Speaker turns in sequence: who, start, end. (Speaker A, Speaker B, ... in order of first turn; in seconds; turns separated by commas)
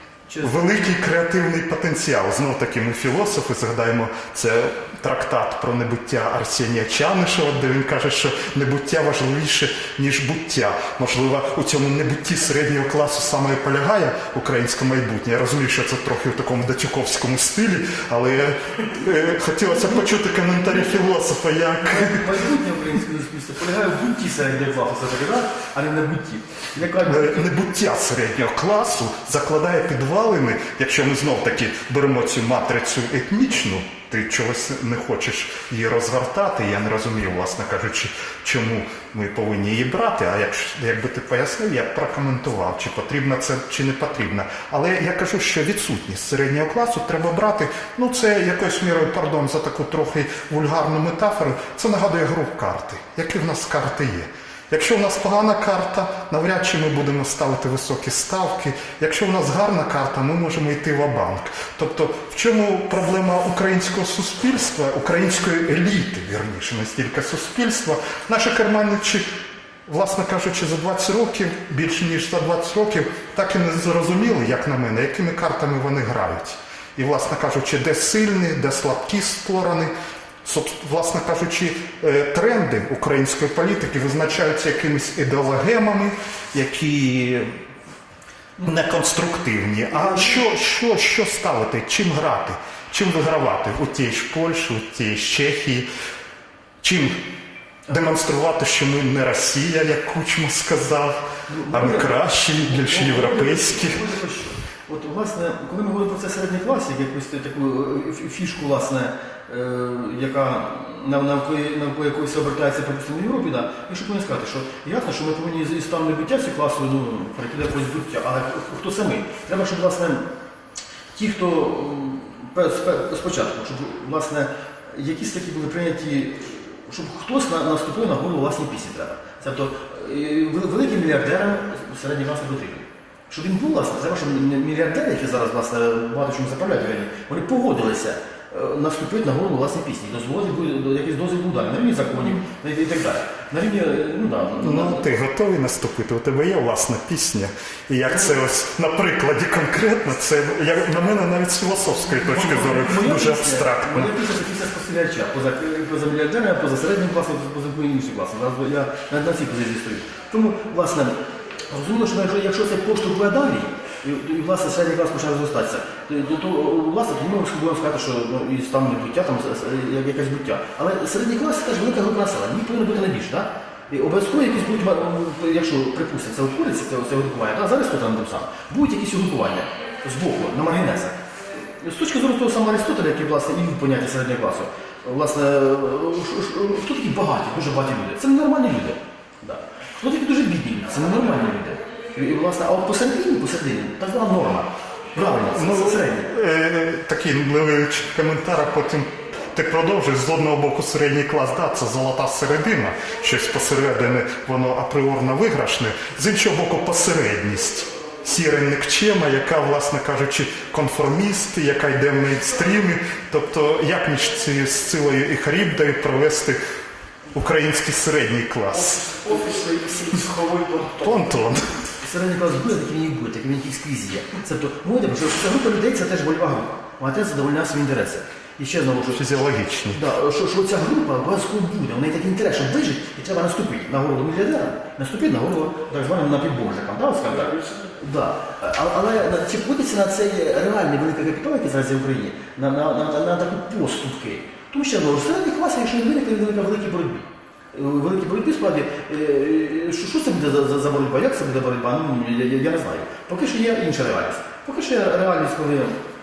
Speaker A: 0.3-0.6, Speaker B: 0.4-22.2, Speaker A: 21.9-27.5, Speaker B: 27.0-69.2, Speaker B: 69.9-79.9, Speaker B: 80.4-87.5, Speaker B: 88.6-95.9, Speaker B: 96.8-97.1, Speaker B: 97.9-104.0, Speaker A: 101.5-120.2, Speaker A: 121.1-145.0, Speaker B: 144.6-154.1, Speaker A: 148.1-148.3, Speaker A: 152.1-161.1, Speaker A: 161.7-196.3, Speaker B: 195.1-216.6, Speaker B: 217.3-219.0, Speaker C: 218.7-221.5, Speaker B: 221.0-221.7, Speaker A: 222.0-229.3, Speaker B: 229.2-230.0, Speaker A: 229.9-256.0, Speaker C: 237.2-238.0